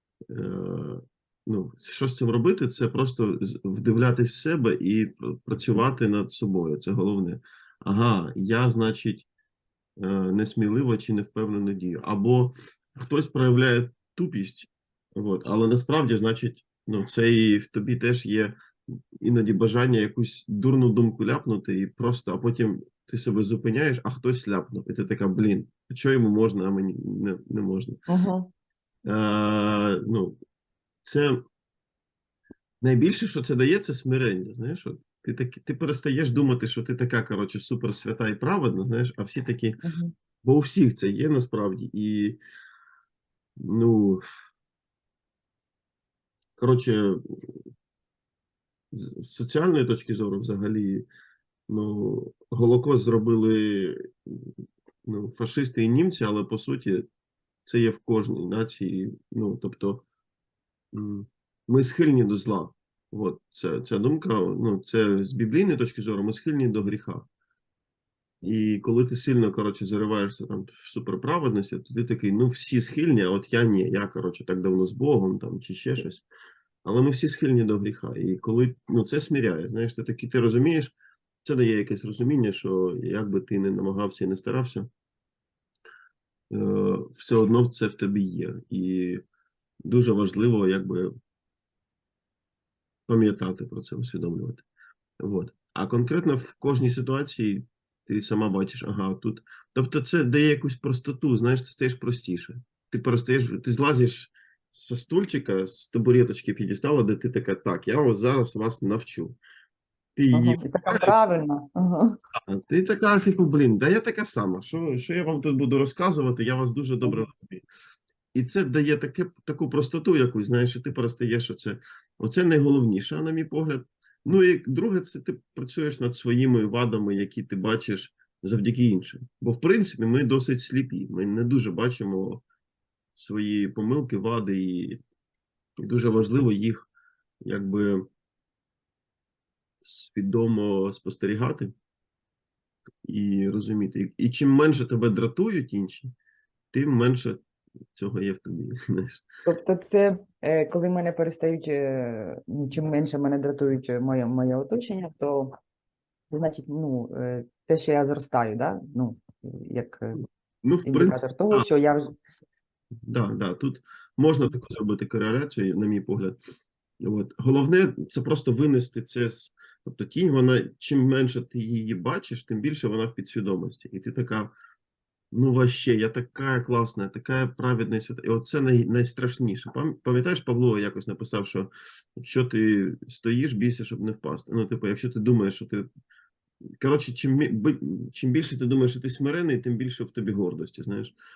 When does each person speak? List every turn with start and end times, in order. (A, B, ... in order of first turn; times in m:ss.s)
0:00.3-0:09.3 A
0:10.0-0:18.6 A
0:19.2-0:28.0 A
0:28.1-0:28.5 B
0:29.1-0:30.4 A
0:31.0-0:31.4 A
0:32.8-0:39.8 A
0:39.8-0:40.1 B
0:40.4-0:42.4 A
0:43.6-0:44.2 A
0:46.6-0:47.6 A
0:48.9-0:51.1 A
0:51.7-0:54.5 A
0:55.0-0:57.0 A
0:57.6-1:00.0 A
1:00.9-1:07.3 A
1:08.4-1:16.3 A
1:16.8-1:24.9 A
1:26.5-1:29.2 A
1:29.8-1:31.1 A
1:33.1-1:34.6 A
1:35.2-1:49.4 A
1:50.2-1:51.2 A
1:50.3-1:52.2 B
1:52.4-1:57.6 A
1:58.3-2:12.4 A
2:13.2-2:15.0 A
2:15.8-2:16.9 A
2:17.4-2:18.1 A
2:19.8-2:21.7 A
2:23.0-2:26.1 A
2:26.7-2:27.4 A
2:28.0-2:29.3 A
2:29.5-2:35.6 B
2:36.3-2:40.2 B
2:40.6-2:41.7 A
2:40.8-2:42.2 B
2:43.1-2:46.4 A
2:47.0-2:54.5 A
2:55.3-3:05.9 A
3:06.8-3:11.2 A